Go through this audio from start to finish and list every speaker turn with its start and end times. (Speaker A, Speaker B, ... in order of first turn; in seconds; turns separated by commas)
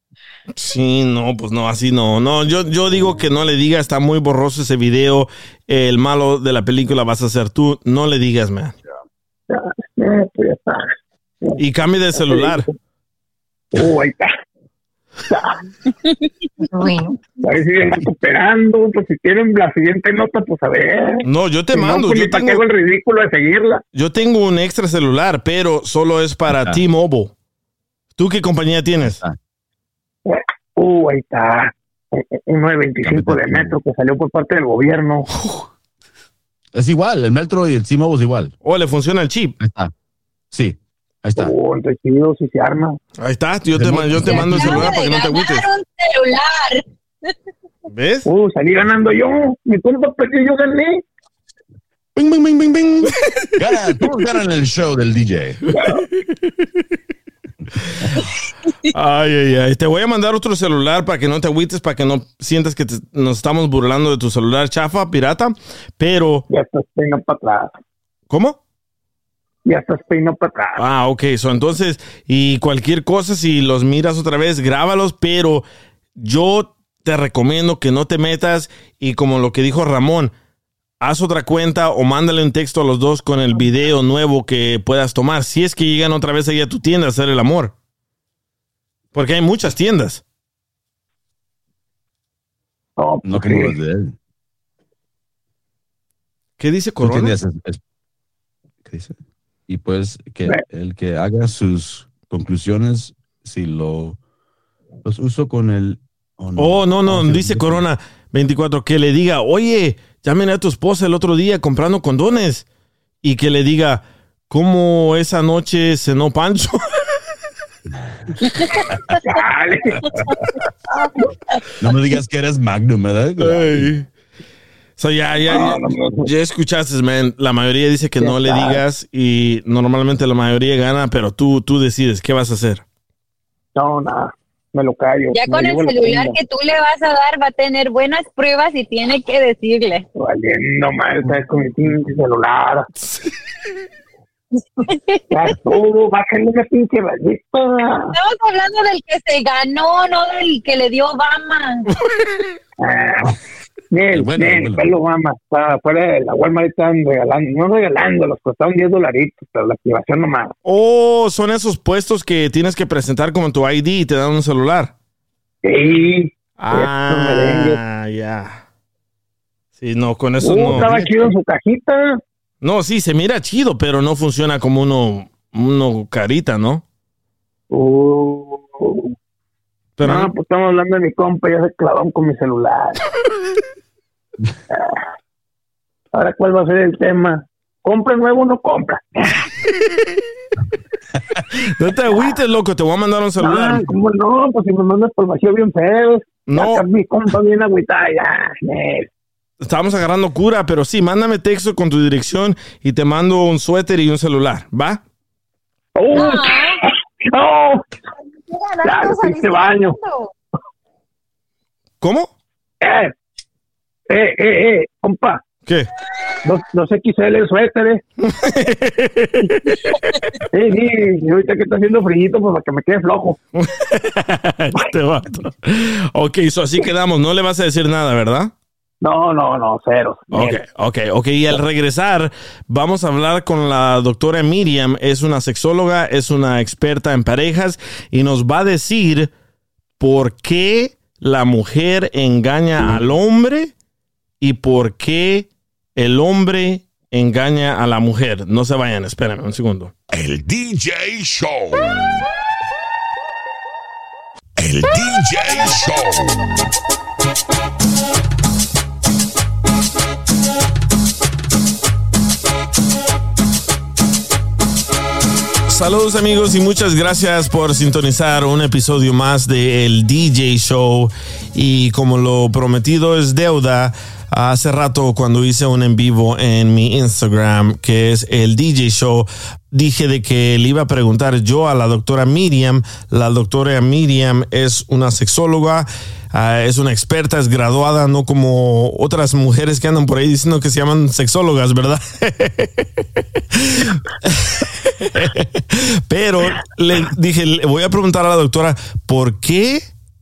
Speaker A: 0.6-8.8, Speaker B: 9.5-10.9, Speaker A: 11.6-12.7, Speaker B: 12.2-12.7, Speaker B: 13.7-14.3, Speaker B: 15.2-15.6, Speaker C: 16.7-17.2, Speaker B: 17.4-23.8, Speaker A: 21.2-22.6, Speaker A: 23.9-27.3, Speaker D: 26.5-26.8, Speaker A: 28.2-29.2, Speaker D: 29.0-29.4, Speaker B: 30.2-35.3, Speaker D: 33.0-33.8, Speaker A: 35.3-35.7, Speaker D: 36.7-38.5, Speaker A: 38.6-39.6, Speaker D: 39.6-39.9, Speaker D: 40.5-41.5, Speaker B: 41.4-43.0, Speaker A: 43.2-45.6, Speaker D: 43.7-45.0, Speaker E: 44.2-46.8, Speaker A: 47.9-48.2, Speaker B: 48.2-51.0, Speaker D: 52.1-55.6, Speaker B: 55.7-56.0, Speaker A: 55.7-56.6, Speaker A: 58.9-66.4, Speaker B: 66.5-67.8, Speaker A: 68.3-68.6, Speaker B: 69.6-70.8, Speaker A: 70.8-75.6, Speaker A: 76.2-80.3, Speaker A: 81.0-87.7, Speaker A: 89.1-90.2, Speaker B: 93.0-93.8, Speaker D: 93.2-94.1, Speaker A: 96.6-97.4, Speaker D: 97.0-97.8, Speaker D: 98.8-99.2, Speaker D: 99.7-104.2, Speaker D: 105.0-107.8, Speaker A: 106.6-112.6, Speaker A: 113.2-116.8, Speaker B: 119.2-120.1, Speaker D: 121.8-123.9, Speaker A: 123.4-124.1, Speaker A: 125.0-132.8, Speaker B: 125.5-126.3, Speaker B: 128.2-128.8, Speaker B: 133.7-136.3, Speaker E: 135.3-140.0, Speaker B: 140.2-142.9, Speaker E: 144.8-145.5, Speaker B: 145.3-148.1, Speaker E: 148.1-151.9, Speaker B: 152.8-153.4, Speaker B: 153.9-160.5, Speaker D: 154.1-154.9, Speaker A: 160.6-164.9, Speaker B: 165.6-167.8, Speaker A: 166.6-168.6, Speaker A: 169.8-170.9, Speaker B: 170.4-172.2, Speaker D: 170.7-171.3, Speaker A: 172.6-176.8, Speaker B: 177.7-179.1, Speaker A: 180.0-180.3, Speaker B: 180.0-183.0, Speaker B: 184.7-185.0, Speaker B: 186.1-189.4, Speaker A: 191.6-193.9, Speaker B: 193.4-199.1, Speaker A: 196.5-196.8, Speaker A: 199.6-205.0, Speaker B: 205.9-207.8, Speaker E: 206.1-206.8, Speaker C: 208.5-210.3, Speaker B: 208.8-210.0, Speaker A: 212.0-212.3, Speaker B: 212.8-213.1, Speaker B: 214.1-215.4, Speaker B: 216.4-218.0, Speaker A: 218.2-219.8, Speaker B: 220.5-223.4, Speaker A: 223.6-228.5, Speaker B: 229.0-230.6, Speaker A: 230.3-239.3, Speaker A: 240.0-243.7, Speaker A: 244.4-249.9, Speaker F: 250.1-252.1, Speaker F: 254.6-256.4, Speaker A: 265.7-299.9